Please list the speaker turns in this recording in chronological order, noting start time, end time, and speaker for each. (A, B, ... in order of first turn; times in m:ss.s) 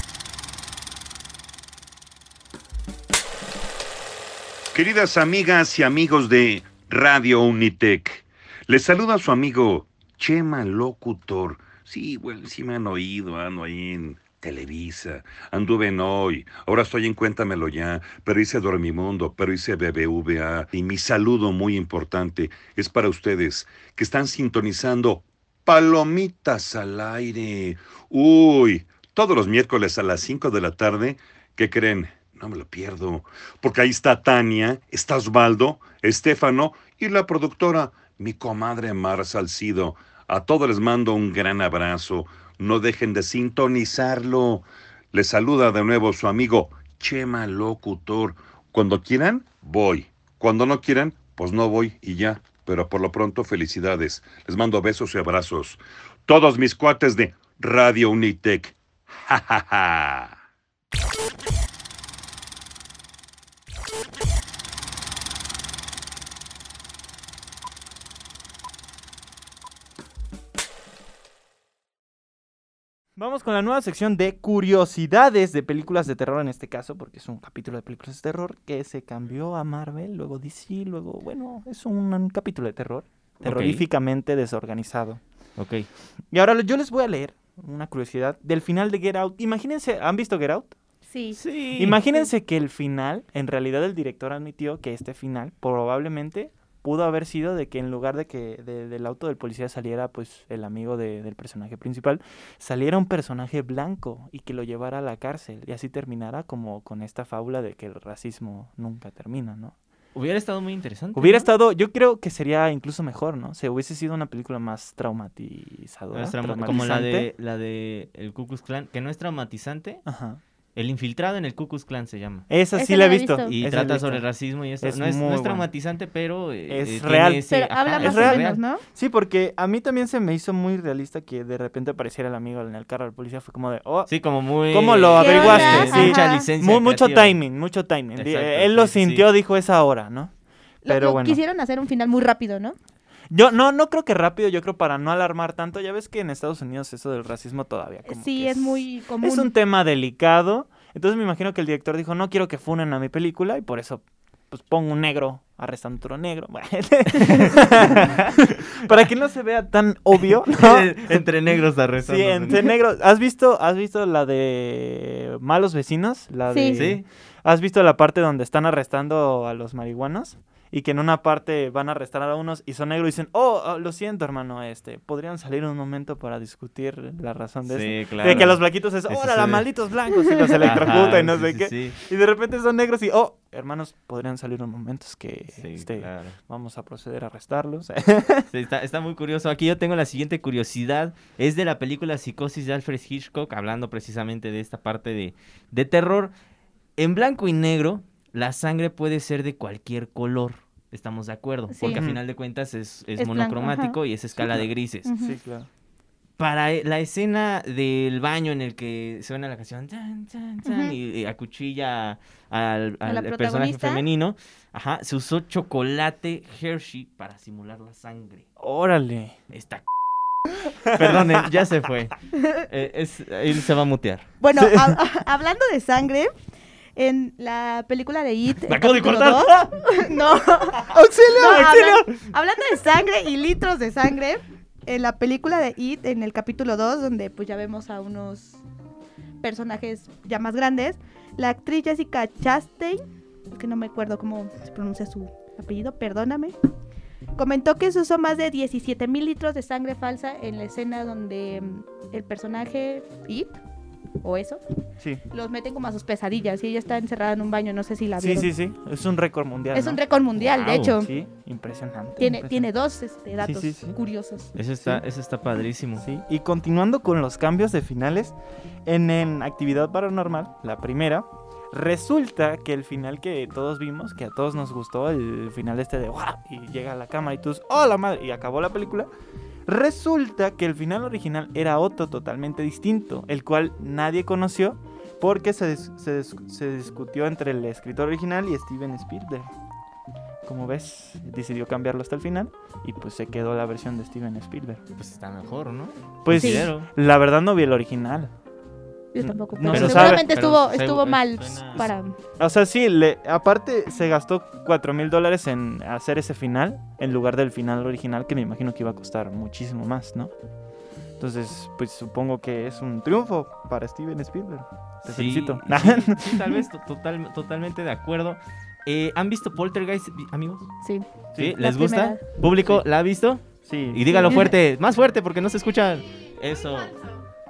0:04.7-1:00.3 A
1:13.2-1:25.2 B
1:23.4-1:23.9 C
1:25.6-1:25.9 C
1:26.3-1:30.7 B
1:31.1-1:31.4 D
1:31.4-1:32.0 C
1:31.8-1:49.7 B
1:50.1-1:51.5 C
1:51.1-1:57.3 B
1:56.1-2:00.0 C
2:00.0-2:00.4 B
2:00.7-2:02.5 C
2:02.5-2:04.2 B
2:02.7-2:03.5 D
2:03.5-2:08.6 C
2:04.8-2:05.7 B
2:06.7-2:14.1 B
2:07.5-2:08.8 D
2:14.1-2:17.4 C
2:14.7-2:20.3 B
2:15.2-2:16.5 D
2:18.2-2:19.3 C
2:20.8-2:22.8 D
2:20.8-2:21.4 B
2:23.3-2:41.3 B
2:28.0-2:29.5 D
2:37.2-2:38.4 C
2:40.5-2:42.6 C
2:42.0-3:08.5 B
2:46.5-2:46.8 D
2:46.7-2:47.0 C
2:57.6-2:59.6 C
3:00.6-3:02.0 C
3:05.6-3:06.4 C
3:08.5-3:16.3 C
3:17.0-3:25.1 C
3:21.7-3:22.0 D
3:21.9-3:22.2 B
3:23.2-3:24.0 D
3:24.4-3:24.6 B
3:25.0-3:25.4 D
3:25.2-3:25.7 B
3:26.4-3:38.4 C
3:30.6-3:30.9 D
3:33.0-3:34.0 D
3:38.6-3:39.3 B
3:39.5-3:39.8 C
3:40.8-3:41.2 B
3:40.9-3:44.2 C
3:44.4-3:46.3 D
3:44.6-3:45.0 B
3:47.0-3:58.6 D
3:48.6-3:49.9 C
3:50.9-3:52.1 B
3:51.4-3:51.9 C
3:59.4-4:06.5 D
4:07.4-4:13.6 D
4:14.2-4:14.6 D
4:15.3-4:18.5 D
4:18.2-4:20.0 B
4:19.7-4:21.1 D
4:20.4-4:21.0 C
4:21.0-4:22.7 B
4:22.2-4:24.5 D
4:23.4-4:24.0 B
4:24.6-4:26.0 C
4:26.0-4:28.3 B
4:28.8-4:39.1 B
4:39.7-4:49.5 B
4:50.4-4:54.8 B
4:55.0-4:56.9 C
4:56.2-4:58.3 B
4:56.3-4:56.7 D
4:59.1-5:02.2 D
4:59.2-5:00.3 B
4:59.7-5:01.9 C
5:02.4-5:10.3 B
5:11.2-5:16.6 B
5:15.0-5:20.7 C
5:21.3-5:21.6 B
5:21.4-5:27.0 C
5:21.6-5:22.2 D
5:23.6-5:24.5 B
5:24.1-5:24.5 D